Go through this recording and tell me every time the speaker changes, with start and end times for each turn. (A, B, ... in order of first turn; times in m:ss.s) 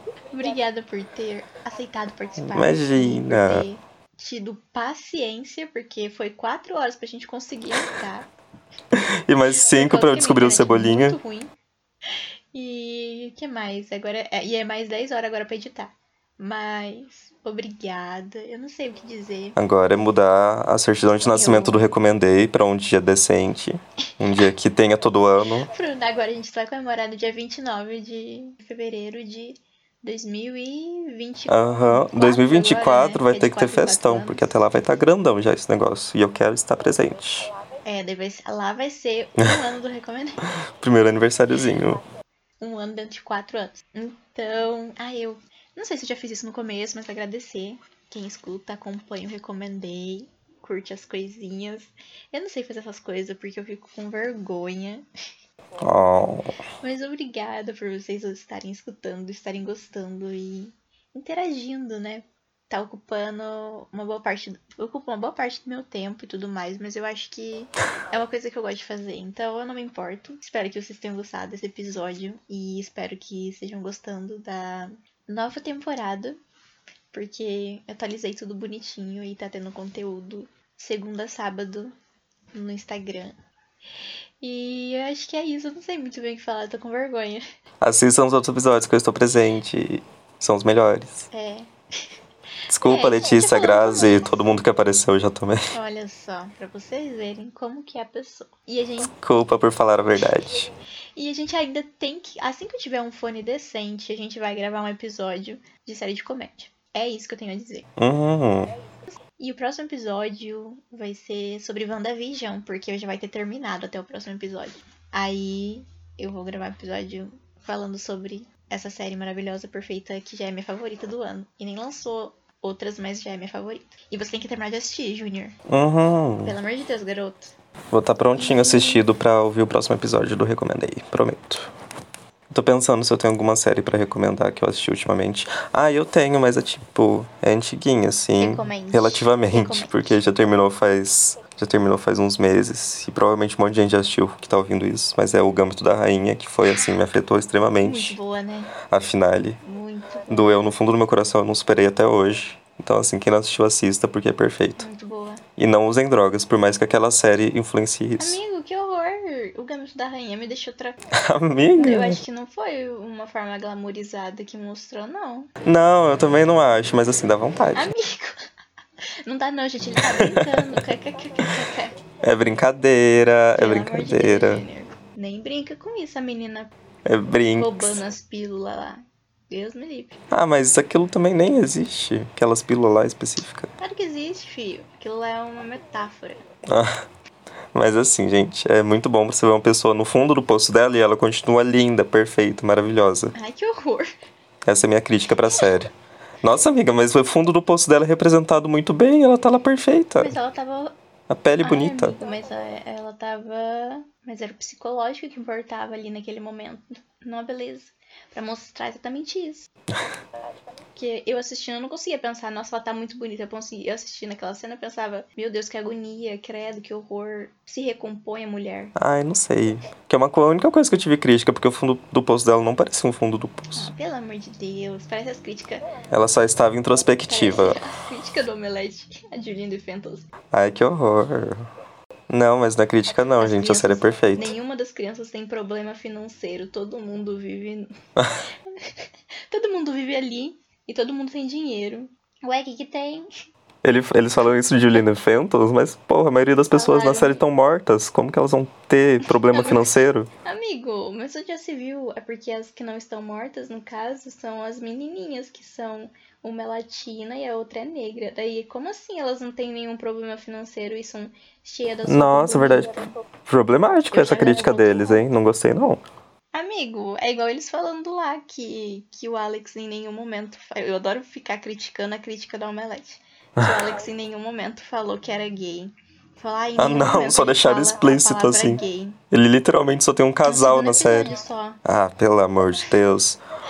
0:00.3-0:08.3 A
0:02.4-0:03.7 B
0:08.9-0:11.2 B
0:09.7-0:11.5 A
0:12.5-0:19.6 A
0:19.6-0:25.7 B
0:21.2-0:21.9 A
0:25.6-0:34.6 A
0:31.5-0:37.5 B
0:37.8-0:40.4 A
0:40.8-0:42.0 B
0:42.6-0:55.0 A
0:55.8-0:56.5 B
0:56.8-1:16.4 A
1:17.1-1:21.9 A
1:22.5-1:23.3 A
1:24.4-1:27.4 A
1:27.8-1:31.3 B
1:31.3-1:31.7 A
1:32.7-1:35.6 B
1:32.8-1:34.4 A
1:35.7-1:39.1 A
1:39.0-1:40.7 B
1:41.2-1:47.9 A
1:48.0-1:48.7 B
1:49.4-2:05.6 A
2:05.7-2:06.6 B
2:06.4-2:07.5 A
2:07.9-2:11.7 B
2:08.3-2:09.0 A
2:12.5-2:28.2 B
2:18.4-2:20.2 A
2:27.8-2:28.7 A
2:28.9-2:29.6 B
2:29.6-2:30.6 A
2:30.3-2:34.8 B
2:34.8-2:35.4 A
2:35.6-2:38.4 B
2:38.2-2:41.0 A
2:41.1-2:42.2 B
2:41.8-2:45.5 A
2:45.6-2:47.9 B
2:47.7-2:48.3 A
2:49.2-2:52.0 A
2:50.0-2:50.9 B
2:52.2-2:54.6 B
2:53.6-2:56.7 A
2:57.0-2:58.0 B
2:57.6-3:00.1 A
3:00.3-3:03.7 B
3:03.8-3:06.4 A
3:06.7-3:07.0 B
3:07.7-3:13.3 B
3:13.3-3:14.1 A
3:14.6-3:15.9 B
3:16.4-3:20.4 B
3:20.2-3:20.9 A
3:21.3-3:22.2 B
3:21.6-3:29.7 A
3:31.0-3:38.9 A
3:39.0-3:43.9 B
3:43.7-3:45.8 A
3:46.1-3:47.8 B
3:47.3-3:50.3 A
3:50.5-3:51.6 B
3:52.3-3:54.5 B
3:53.4-3:57.9 A
3:59.5-4:03.3 A
4:03.8-4:10.3 B
4:06.7-4:07.4 A
4:09.3-4:23.1 A
4:22.0-4:26.0 B
4:24.1-4:25.2 A
4:26.5-4:39.2 A
4:33.6-4:33.8 B
4:36.8-4:43.4 B
4:40.4-4:41.8 A